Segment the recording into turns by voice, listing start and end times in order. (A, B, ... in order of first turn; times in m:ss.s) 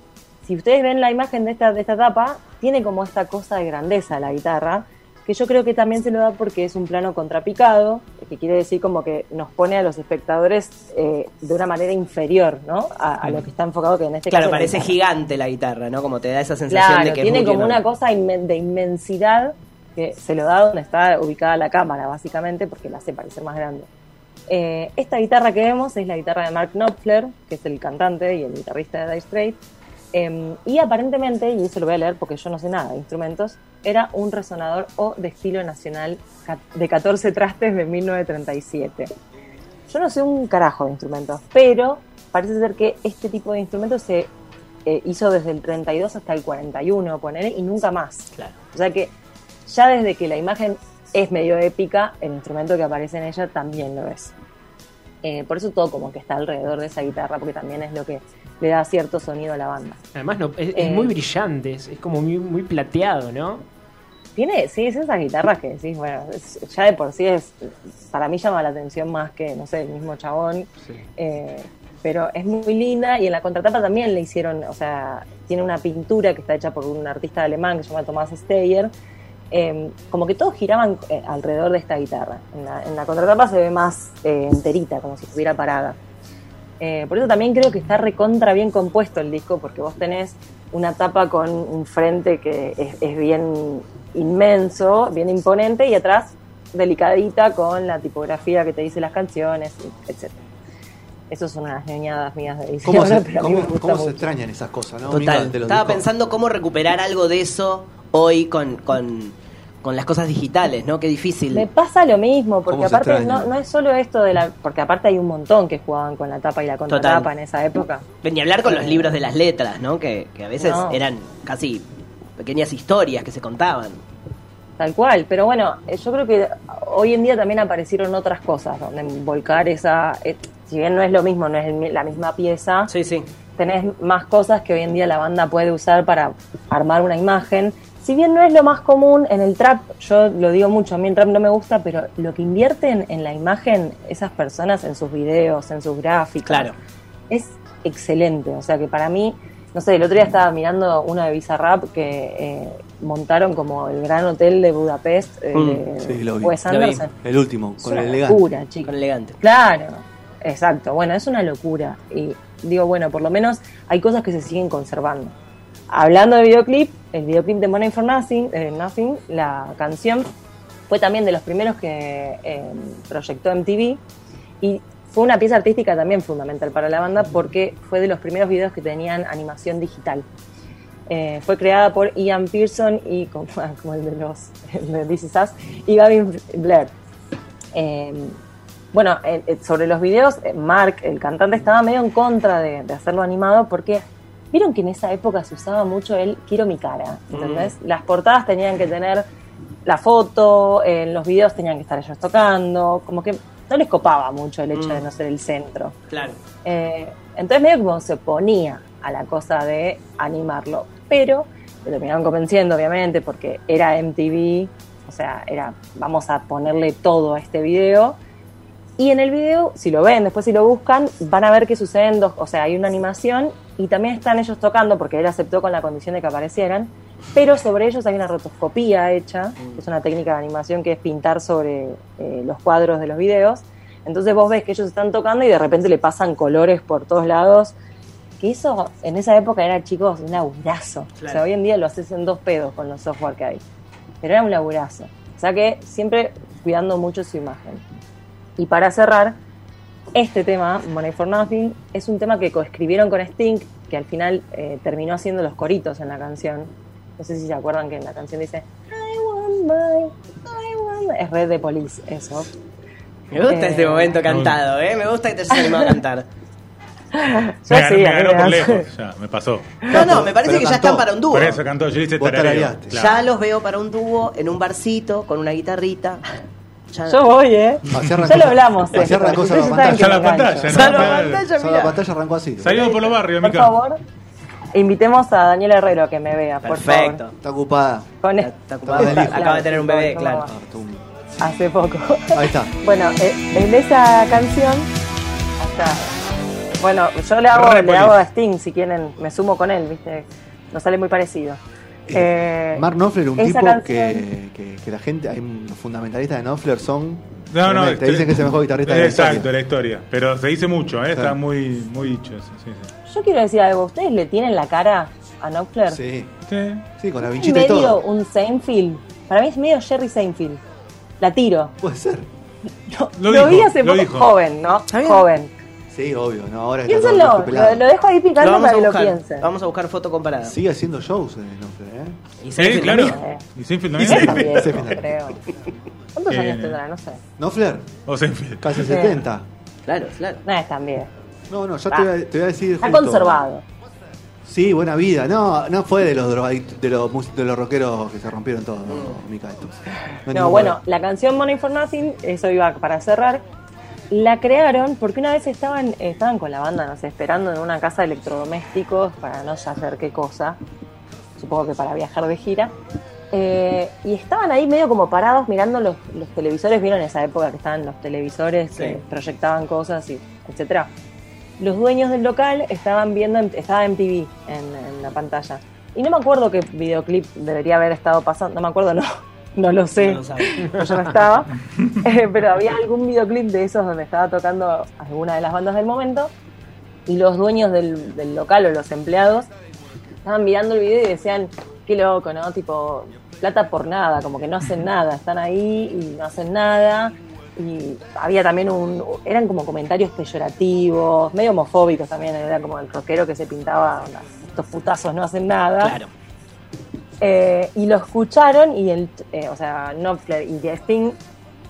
0:00.4-0:15.0 A
0:14.3-0:17.8 B
0:16.7-0:23.9 A
0:24.5-0:29.6 A
0:30.1-0:39.1 A
0:39.9-0:44.3 A
0:44.8-0:49.1 A
0:49.6-0:54.3 A
0:55.2-1:00.0 A
1:00.1-1:03.6 C
1:00.7-1:01.1 A
1:04.4-1:18.9 A
1:19.5-1:26.0 A
1:26.8-1:40.4 A
1:41.3-1:44.2 A
1:42.8-1:46.0 D
1:45.1-1:51.6 B
1:51.5-1:58.0 A
1:52.7-1:53.5 D
1:56.9-1:57.3 B
1:58.2-2:01.8 B
1:58.6-1:59.2 A
2:00.6-2:01.0 A
2:02.4-2:04.0 B
2:04.8-2:12.9 A
2:12.9-2:13.3 B
2:13.6-2:26.7 A
2:26.4-2:26.8 B
2:27.3-2:37.1 A
2:35.5-2:35.8 B
2:36.0-2:36.6 D
2:36.7-2:37.0 B
2:37.1-2:38.4 D
2:37.8-2:45.3 A
2:38.8-2:39.4 B
2:45.9-2:50.3 A
2:50.9-2:54.0 A
2:54.6-3:00.3 A
3:01.1-3:06.9 A
3:07.7-3:08.4 A
3:08.9-3:19.2 A
3:17.3-3:17.7 B
3:19.8-3:25.9 A
3:24.7-3:25.0 B
3:26.1-3:26.4 B
3:26.6-3:38.2 A
3:39.0-3:57.7 A
3:58.4-4:03.6 A
4:01.2-4:01.4 B
4:04.2-4:07.8 A
4:08.6-4:09.4 A
4:10.1-4:22.5 A
4:23.3-4:26.3 B
4:23.4-4:24.2 A
4:24.3-4:24.6 E
4:25.5-4:25.9 A
4:27.1-4:28.9 A
4:27.7-4:29.8 E
4:29.9-4:31.6 B
4:29.9-4:31.1 D
4:31.3-4:33.3 E
4:32.2-4:32.9 D
4:32.9-4:36.2 B
4:36.9-4:37.2 B
4:37.1-4:41.0 A
4:37.9-4:40.2 D
4:39.9-4:41.4 E
4:40.7-4:42.0 B
4:41.5-4:42.8 D
4:42.6-4:43.7 E
4:42.8-4:44.0 A
4:44.7-4:47.2 A
4:46.6-4:47.3 B
4:47.4-4:48.1 D
4:48.2-4:50.5 A
4:48.4-4:50.5 B
4:48.8-4:49.6 D
4:50.4-4:51.0 D
4:51.4-4:54.9 A
4:52.3-4:52.7 D
4:55.6-4:56.1 A
4:56.8-5:01.6 A
4:57.5-4:58.2 E
5:02.1-5:09.5 D
5:02.1-5:02.8 A
5:03.4-5:04.2 A
5:07.5-5:12.9 E
5:11.1-5:11.4 D
5:13.0-5:16.0 A
5:15.9-5:16.3 D
5:16.5-5:16.8 E
5:16.9-5:18.0 D
5:17.3-5:20.6 A
5:21.2-5:21.7 A
5:21.8-5:22.3 D
5:22.9-5:25.5 A
5:23.2-5:24.3 E
5:24.9-5:25.2 B
5:25.9-5:27.8 D
5:26.8-5:29.5 A
5:28.4-5:30.5 B
5:30.4-5:32.2 D
5:32.4-5:33.2 B
5:32.6-5:34.7 E
5:32.9-5:33.4 A
5:34.0-5:35.2 D
5:34.0-5:35.4 A
5:34.0-5:34.4 B
5:36.1-5:37.2 A
5:36.3-5:36.8 E
5:37.4-5:37.9 D
5:38.1-5:38.7 E
5:38.6-5:39.4 D
5:38.8-5:39.2 A
5:39.9-5:40.4 B
5:40.4-5:41.1 A
5:41.5-5:43.4 D
5:42.8-5:43.6 A
5:44.4-5:50.8 D
5:48.9-5:49.2 B
5:50.3-5:53.4 A
5:54.1-6:00.6 A
6:01.4-6:02.7 A
6:03.3-6:10.9 A
6:08.7-6:09.0 B
6:11.6-6:26.3 A
6:20.0-6:20.6 B
6:27.1-6:29.5 A
6:30.2-6:46.0 A
6:45.8-6:46.1 B
6:47.2-6:51.2 A